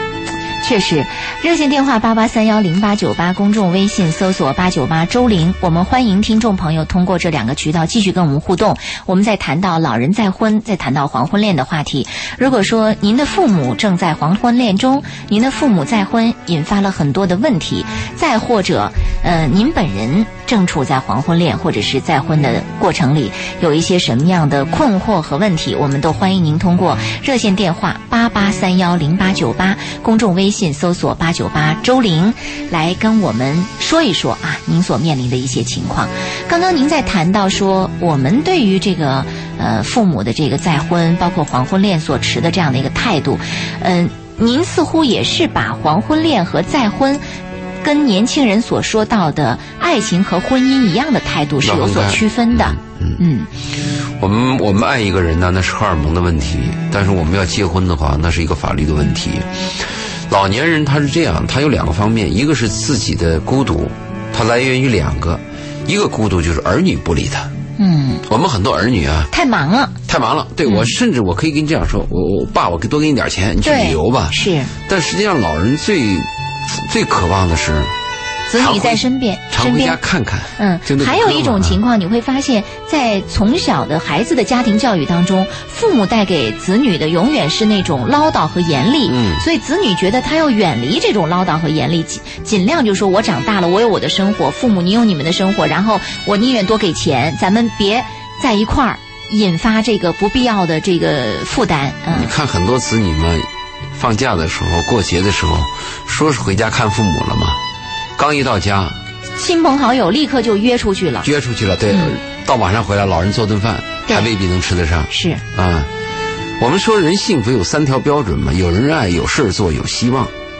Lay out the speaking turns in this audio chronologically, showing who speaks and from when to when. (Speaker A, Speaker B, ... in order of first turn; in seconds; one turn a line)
Speaker A: 0.6-47.2
Speaker A: 47.8-53.5
Speaker B: 51.6-53.2
Speaker B: 54.1-67.5
Speaker A: 67.8-68.2
Speaker B: 68.3-69.3
Speaker A: 69.3-70.0
Speaker B: 70.1-77.9
Speaker A: 70.6-70.9
Speaker A: 73.6-74.7
Speaker A: 78.5-80.0
Speaker B: 78.5-81.8
Speaker A: 80.6-102.3
Speaker B: 89.1-89.4
Speaker B: 102.1-107.6
Speaker B: 108.2-109.0
Speaker A: 109.4-111.3
Speaker B: 111.2-115.9
Speaker A: 111.9-112.1
Speaker A: 115.1-115.4
Speaker B: 116.6-120.3